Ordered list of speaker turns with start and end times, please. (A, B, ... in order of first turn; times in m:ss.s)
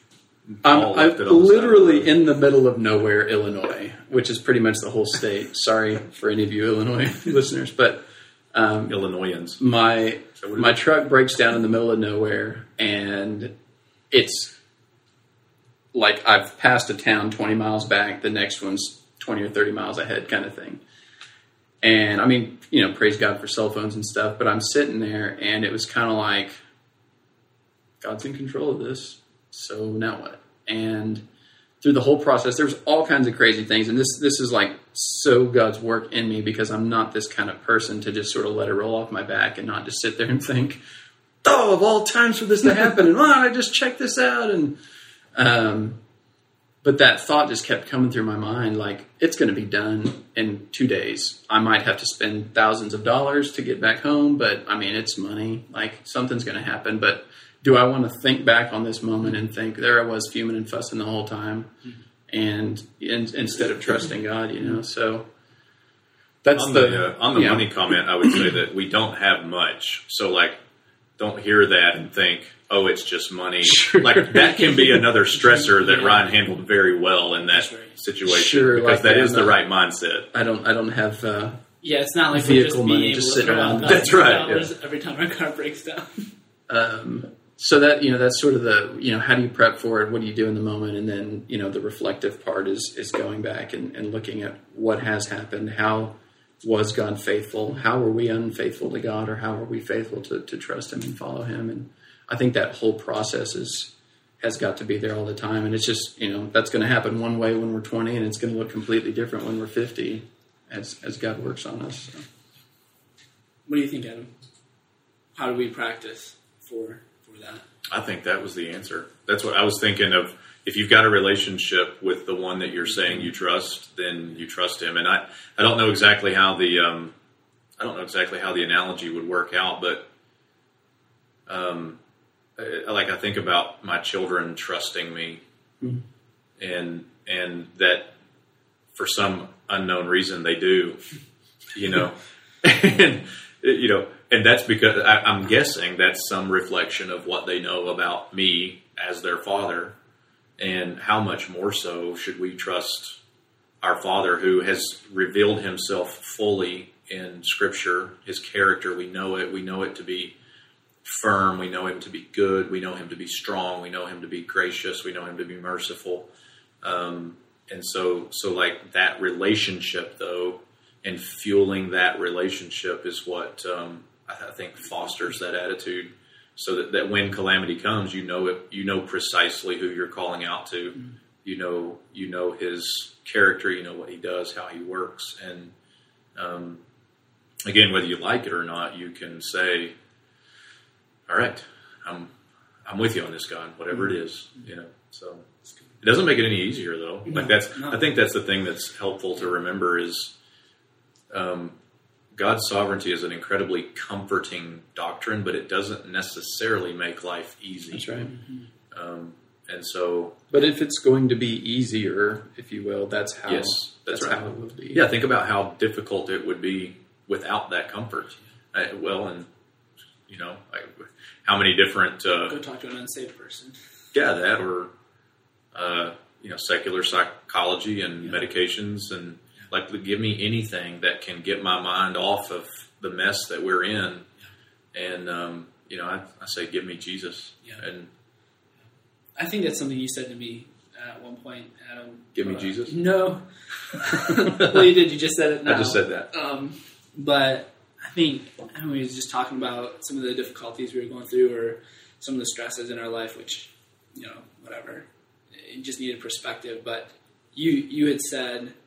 0:00.5-0:02.1 A
0:00.6-0:09.0 B
0:08.9-0:09.6 A
0:09.6-0:13.5 B
0:10.4-0:10.8 A
0:14.1-0:14.6 B
0:15.9-0:20.8 B
0:21.8-0:26.6 B
0:28.0-0:31.2 B
0:31.8-0:40.8 B
0:41.4-0:44.8 B
0:45.3-0:46.0 B
0:46.8-1:01.7 B
1:02.3-1:05.3 B
1:06.4-1:07.7 B
1:06.5-1:10.6 A
1:11.2-1:20.3 A
1:13.7-1:14.5 B
1:15.6-1:16.4 C
1:17.5-1:17.9 C
1:18.3-1:19.6 B
1:20.3-1:21.6 B
1:21.8-1:26.3 C
1:22.3-1:24.3 B
1:23.8-1:24.7 A
1:26.7-1:52.3 B
1:53.7-1:54.3 C
1:55.4-1:57.6 C
1:57.9-2:07.2 A
2:07.8-2:10.1 A
2:11.5-2:12.0 A
2:12.6-2:15.4 A
2:16.6-2:18.1 A
2:19.0-2:21.0 A
2:21.7-2:30.0 A
2:30.6-2:33.2 A
2:33.8-2:40.4 A
2:41.0-2:46.3 A
2:46.8-3:05.7 A
3:06.4-3:06.8 A
3:07.6-3:09.9 A
3:11.3-3:12.3 A
3:12.8-3:15.5 A
3:16.0-3:20.3 A
3:17.3-3:18.0 C
3:21.3-3:21.7 A
3:22.3-3:28.1 A
3:27.9-3:28.3 B
3:28.9-3:30.4 A
3:30.5-3:35.0 B
3:33.5-3:34.4 A
3:34.9-3:39.5 A
3:40.3-3:42.6 A
3:42.5-3:43.8 C
3:44.1-3:44.9 A
3:45.7-3:54.3 A
3:54.9-3:58.1 A
3:59.4-4:18.7 C
4:02.4-4:03.0 A
4:04.3-4:05.0 A
4:05.7-4:06.3 A